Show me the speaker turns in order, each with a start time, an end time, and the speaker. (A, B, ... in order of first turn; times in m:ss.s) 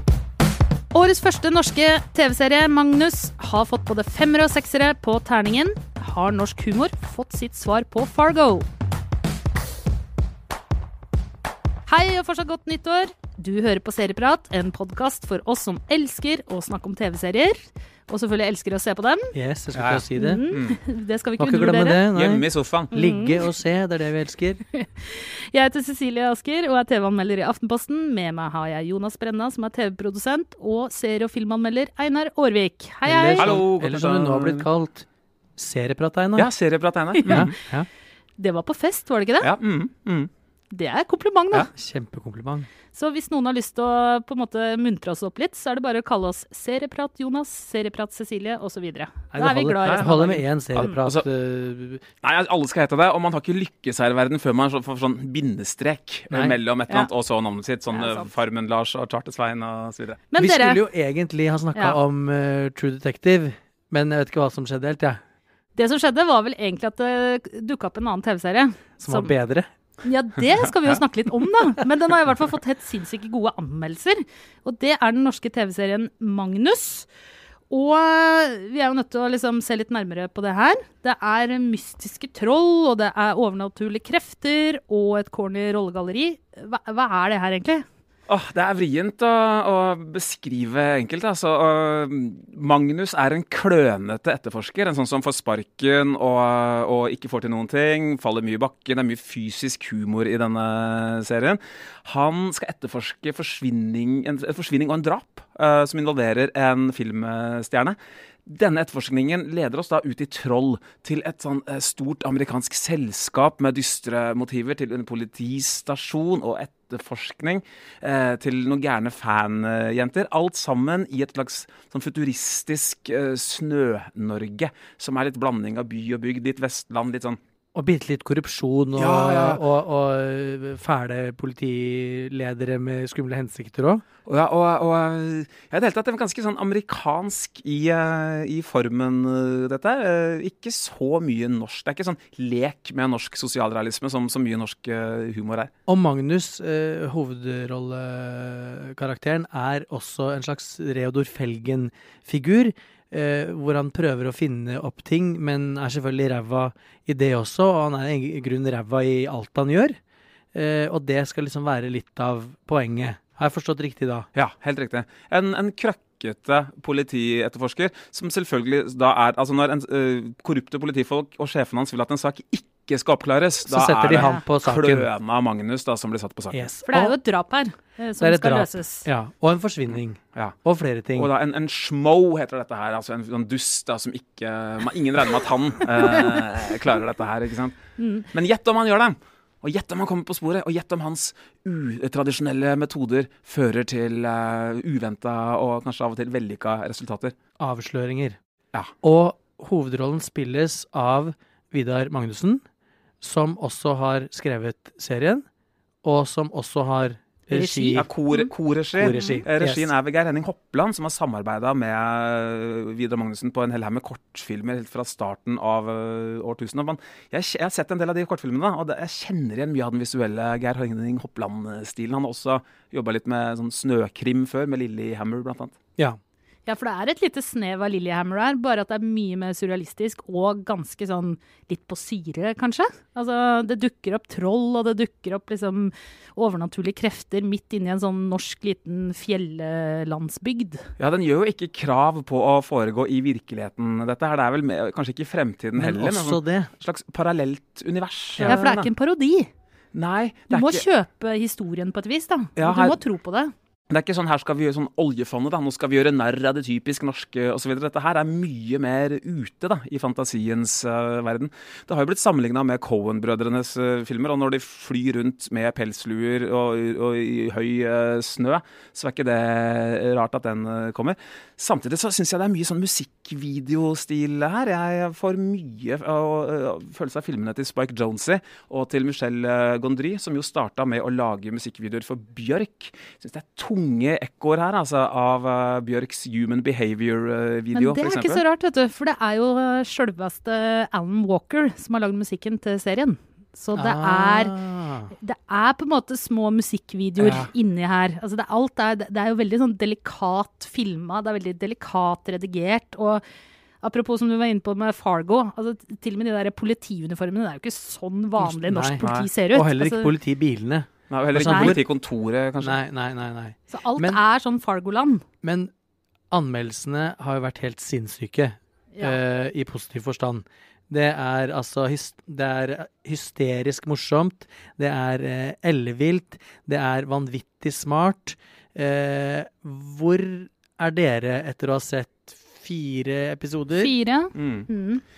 0:00.9-0:08.7 A
0:11.9-0:19.3 A
0:19.3-0:20.4 B
0:19.7-0:20.8 C
0:20.1-0:22.0 A
0:21.4-0:24.6 B
0:22.1-0:22.9 C
0:22.9-0:23.4 A
0:24.7-0:33.6 A
0:33.0-0:35.0 B
0:33.4-0:34.7 C
0:35.6-0:36.5 B
0:36.4-0:37.5 C
0:37.2-0:37.5 A
0:37.2-0:37.9 B
0:38.4-0:39.5 A
0:39.4-0:40.3 C
0:40.7-0:41.7 A
0:41.5-0:42.7 B
0:42.9-0:51.0 A
0:49.3-0:52.0 B
0:50.8-0:51.2 C
0:52.2-1:00.2 C
0:56.3-0:56.6 B
0:57.9-0:58.3 A
1:00.3-1:00.8 A
1:00.4-1:05.2 B
1:05.8-1:09.3 A
1:09.0-1:09.7 B
1:10.0-1:17.1 A
1:17.7-1:27.8 A
1:28.3-2:07.4 C
2:07.7-2:14.0 B
2:09.0-2:09.6 C
2:14.2-2:25.7 C
2:25.9-2:40.0 B
2:40.5-2:44.3 B
2:44.3-2:56.7 C
2:53.6-2:55.1 B
2:54.1-2:54.4 A
2:56.5-2:57.2 B
2:56.8-2:59.1 A
2:58.2-3:01.3 B
2:59.9-3:00.6 C
3:01.2-3:07.8 C
3:08.0-3:08.2 A
3:08.3-3:17.3 C
3:17.6-3:18.4 B
3:19.0-3:22.6 B
3:23.2-3:25.4 B
3:26.0-3:28.1 B
3:27.5-3:45.7 C
3:29.0-3:29.9 B
3:29.0-3:29.4 A
3:46.6-4:00.8 A
4:01.0-4:08.9 C
4:05.7-4:06.7 B
4:08.4-4:08.6 B
4:08.4-4:09.5 A
4:09.9-4:10.8 C
4:10.5-4:13.5 A
4:12.6-4:13.0 C
4:13.9-4:48.4 C
4:47.7-4:54.6 A
4:53.7-4:55.1 B
4:55.2-5:03.2 A
4:57.2-4:57.5 C
5:03.8-5:10.1 A
5:08.4-5:11.8 B
5:09.0-5:09.3 C
5:11.1-5:12.8 C
5:11.4-5:11.8 A
5:12.6-5:14.2 B
5:13.7-5:15.2 A
5:15.4-5:15.7 B
5:16.3-5:33.9 B
5:33.8-5:35.0 A
5:34.3-5:34.7 C